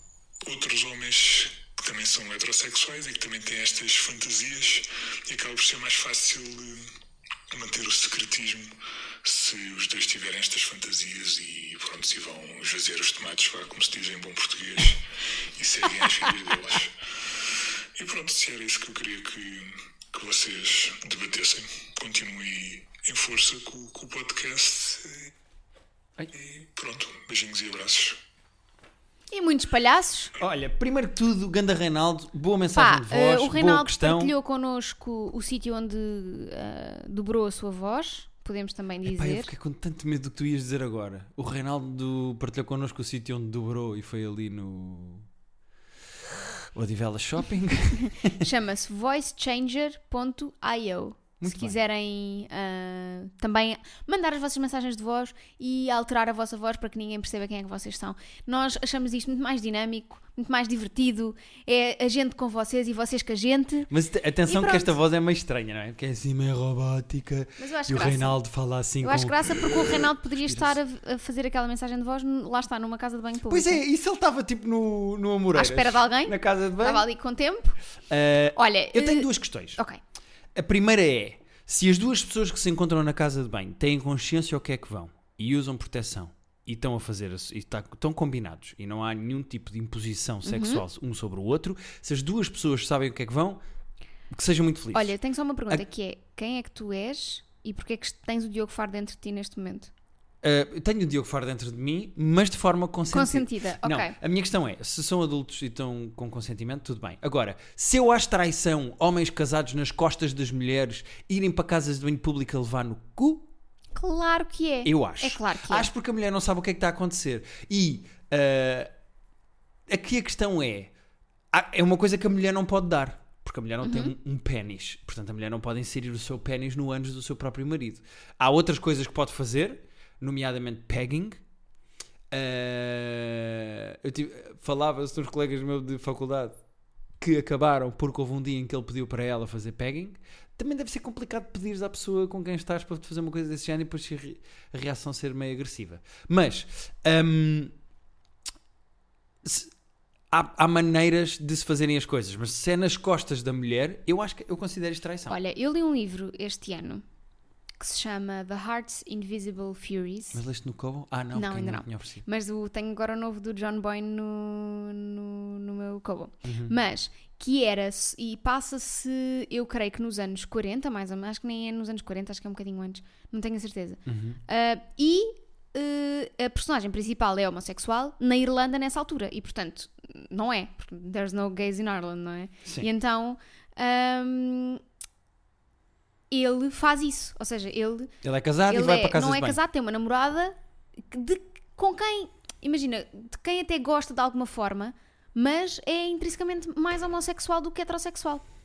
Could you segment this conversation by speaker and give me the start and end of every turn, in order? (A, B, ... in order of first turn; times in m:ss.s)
0:00.4-0:06.9 A
0:07.5-0:25.3 A
0:26.3-0:28.2 A
0:29.3-0:30.3 B
0:30.4-0:34.3 C
0:32.7-0:39.5 B
0:39.0-0:45.3 C
0:46.3-0:48.5 C
0:48.0-1:03.9 B
0:51.4-0:51.8 C
1:03.9-1:10.8 C
1:04.4-1:04.9 B
1:07.6-1:08.4 B
1:09.0-1:13.8 B
1:13.5-1:17.0 C
1:15.5-1:17.8 B
1:18.1-1:19.8 C
1:18.5-1:20.0 B
1:20.5-1:33.6 C
1:30.4-1:30.8 B
1:34.3-1:35.1 C
1:34.9-1:39.9 B
1:40.4-1:53.5 C
1:43.1-1:44.2 B
1:53.9-1:55.9 B
1:54.8-1:58.9 C
1:59.9-2:00.9 C
2:01.5-2:11.4 C
2:03.8-2:04.1 B
2:12.3-2:16.6 C
2:17.2-2:27.7 C
2:29.4-2:29.7 C
2:30.3-2:35.4 C
2:35.3-2:37.0 B
2:37.8-2:40.4 B
2:40.3-2:42.2 C
2:41.3-3:04.8 B
2:46.4-2:46.7 C
2:54.0-2:54.4 C
3:06.3-3:08.1 B
3:08.2-3:09.6 C
3:08.7-3:18.4 B